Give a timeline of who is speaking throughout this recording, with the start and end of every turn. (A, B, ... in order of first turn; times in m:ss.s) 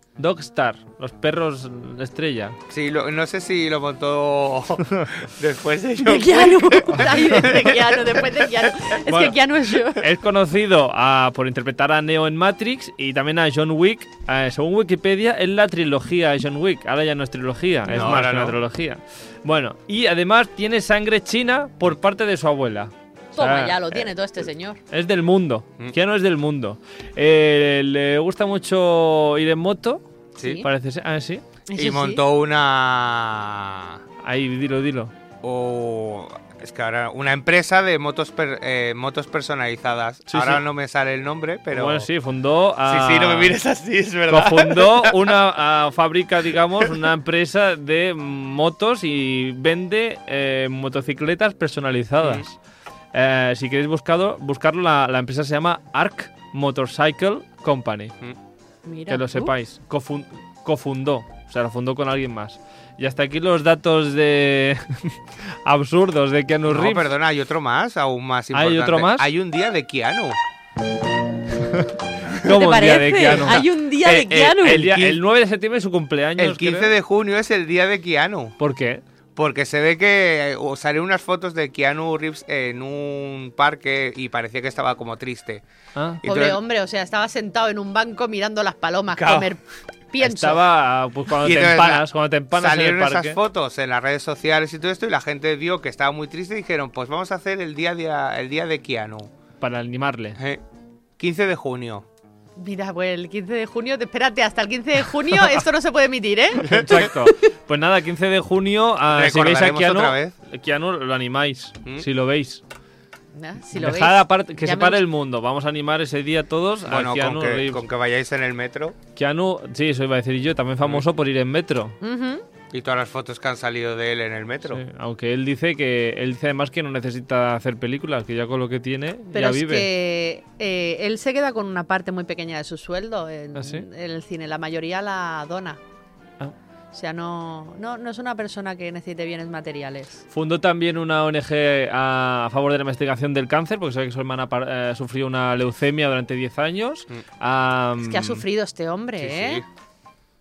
0:00.2-0:02.6 A
0:02.7-0:08.7 B
0:06.0-0:10.0 C
0:09.1-0:24.1 A
0:17.9-0:18.6 B
0:23.4-0:24.8 C
0:24.9-0:30.0 A
0:30.4-0:30.7 B
0:30.6-0:31.4 A
0:31.7-0:32.2 C
0:31.8-0:34.0 B
0:34.2-0:35.1 A
0:35.4-0:42.1 B
0:40.3-0:40.6 A
0:41.7-0:43.6 A
0:42.8-0:45.3 B
0:44.3-0:52.6 A
0:52.2-0:52.5 B
0:53.1-0:58.1 A
0:58.8-0:59.5 C
0:59.1-1:07.1 A
1:06.7-1:10.4 B
1:08.5-1:09.3 A
1:11.6-1:13.7 A
1:12.4-1:14.9 C
1:14.0-1:15.2 B
1:14.3-1:16.9 A
1:16.4-1:18.6 B
1:18.6-1:19.0 A
1:19.4-1:25.6 B
1:26.0-1:26.2 A
1:26.2-1:26.6 B
1:26.2-1:30.6 C
1:29.2-1:29.5 B
1:30.2-1:33.4 A
1:31.4-1:39.3 B
1:39.6-1:40.4 A
1:40.4-1:40.6 B
1:41.2-1:42.1 B
1:42.6-1:47.1 C
1:46.6-1:52.6 A
1:46.6-1:47.1 B
1:49.1-1:50.3 B
1:53.3-1:55.0 C
1:53.8-1:57.8 A
1:56.9-1:59.0 B
1:59.2-2:02.0 A
2:02.0-2:02.4 C
2:02.7-2:04.8 B
2:04.7-2:09.9 A
2:09.3-2:15.8 C
2:13.6-2:13.9 A
2:16.9-2:20.2 C
2:20.3-2:28.4 A
2:28.0-2:29.6 C
2:29.2-2:29.7 B